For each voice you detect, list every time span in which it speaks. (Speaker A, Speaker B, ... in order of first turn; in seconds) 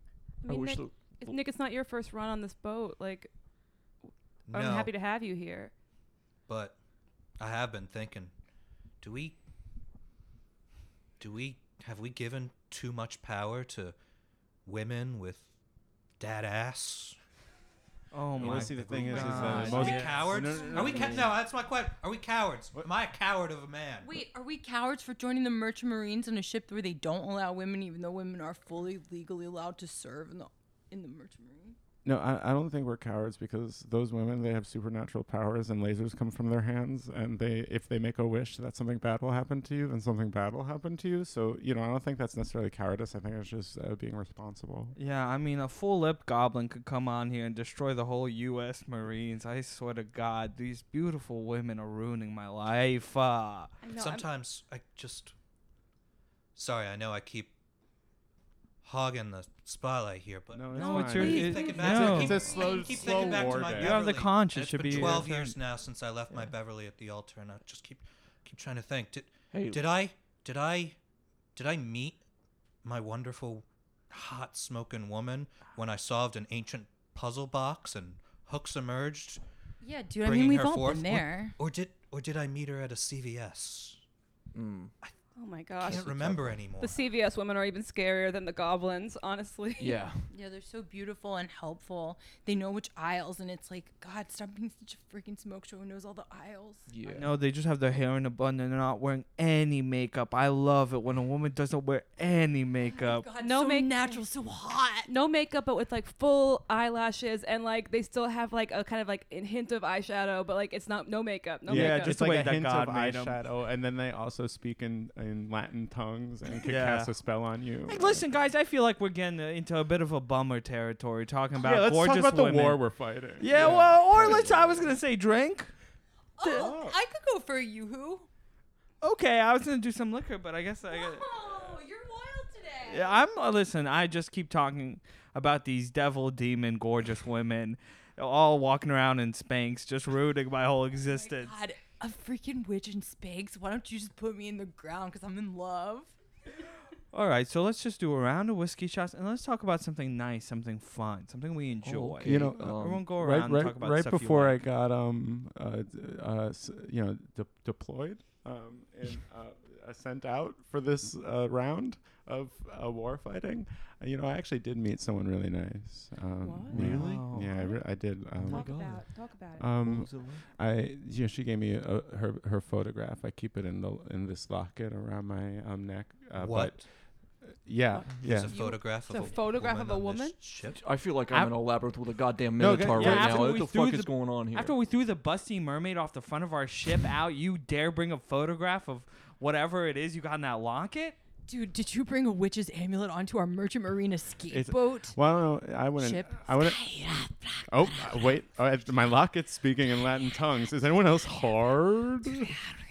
Speaker A: 0.4-3.3, 4.5-5.7, 53.8-54.3, 60.8-63.3, 85.4-86.2, 86.8-90.0, 103.4-104.2, 105.1-112.2, 166.4-166.8, 167.6-167.8, 168.4-169.7, 178.0-180.4
Speaker B: 0.5-1.4, 69.5-69.8, 84.5-84.9, 85.9-86.6, 89.8-90.2, 96.9-97.3, 123.5-124.8, 151.8-153.1, 166.7-167.4, 168.4-169.0, 169.8-170.4, 180.7-184.8
Speaker C: 4.5-4.9, 6.5-6.8, 7.4-8.3, 9.0-9.4, 11.2-14.0, 14.7-15.5, 16.2-17.2, 18.4-24.2, 54.0-55.3, 56.5-57.5, 58.8-71.0, 71.5-72.2, 72.8-79.4, 80.2-84.0, 85.8-87.0, 176.4-176.9, 178.2-180.8
Speaker D: 18.1-20.4, 45.0-53.7, 60.7-62.4, 63.6-65.6, 97.2-103.3, 111.7-113.4, 116.6-117.1, 117.9-122.8, 123.4-125.7, 129.0-131.8, 132.9-141.6, 147.1-154.6, 166.7-167.6, 182.6-191.2
Speaker E: 18.4-21.4, 32.0-45.0, 60.5-64.1, 64.9-65.3, 111.7-118.3, 121.6-124.9, 126.5-127.0, 152.2-178.6, 182.6-183.6, 194.5-197.0, 197.7-202.6
Speaker F: 24.0-31.8, 79.8-81.6, 90.3-97.2, 102.9-105.1, 126.4-128.3, 130.9-133.2, 141.0-146.2, 191.5-195.2, 196.0-198.3